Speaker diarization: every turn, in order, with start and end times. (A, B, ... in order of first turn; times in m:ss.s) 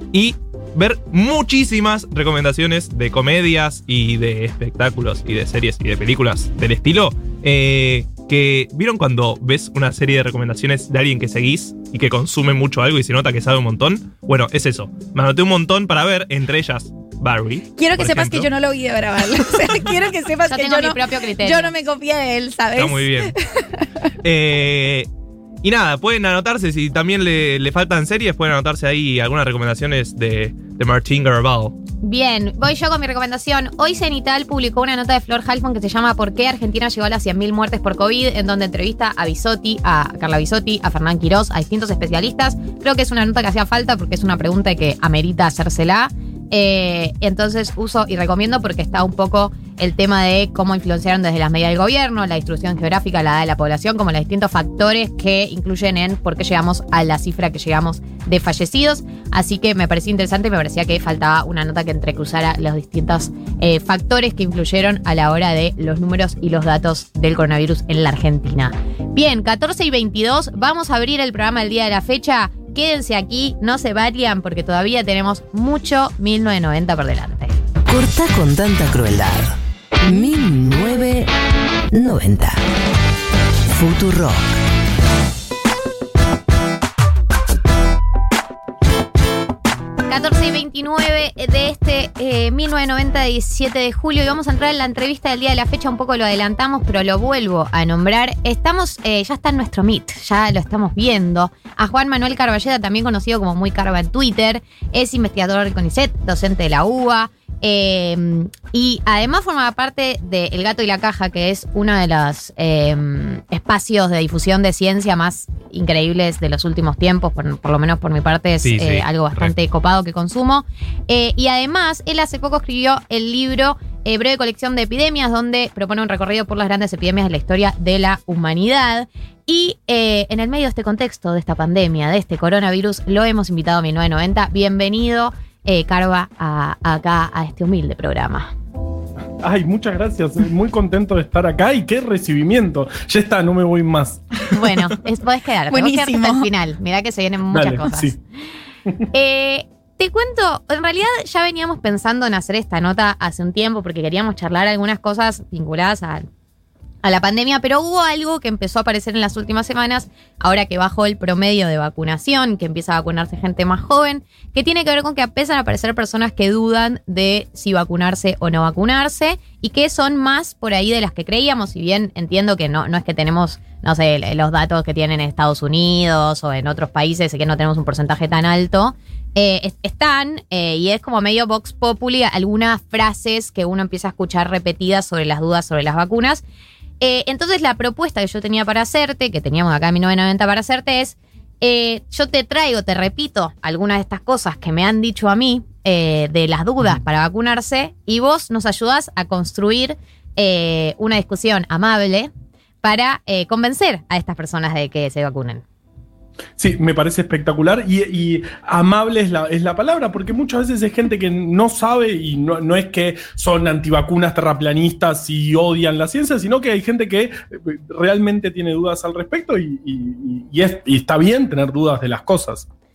0:00.1-0:18.5 A
0:17.8-0:23.9 B
0:20.5-0:21.7 C
0:22.8-0:23.3 A
0:24.2-0:25.1 A
0:25.6-0:31.8 A
0:32.0-1:17.5 C
1:17.9-1:21.3 D
1:21.9-1:22.6 D
1:23.7-1:24.6 D
1:30.1-2:18.5 C
1:58.6-1:59.5 A
2:19.4-2:24.5 E
2:24.5-2:28.1 C
2:25.7-2:26.5 B
2:27.5-2:28.2 E
2:29.1-2:36.3 C
2:37.0-3:06.4 C
3:07.0-3:22.3 C
3:22.8-3:25.6 C
3:26.6-3:42.7 E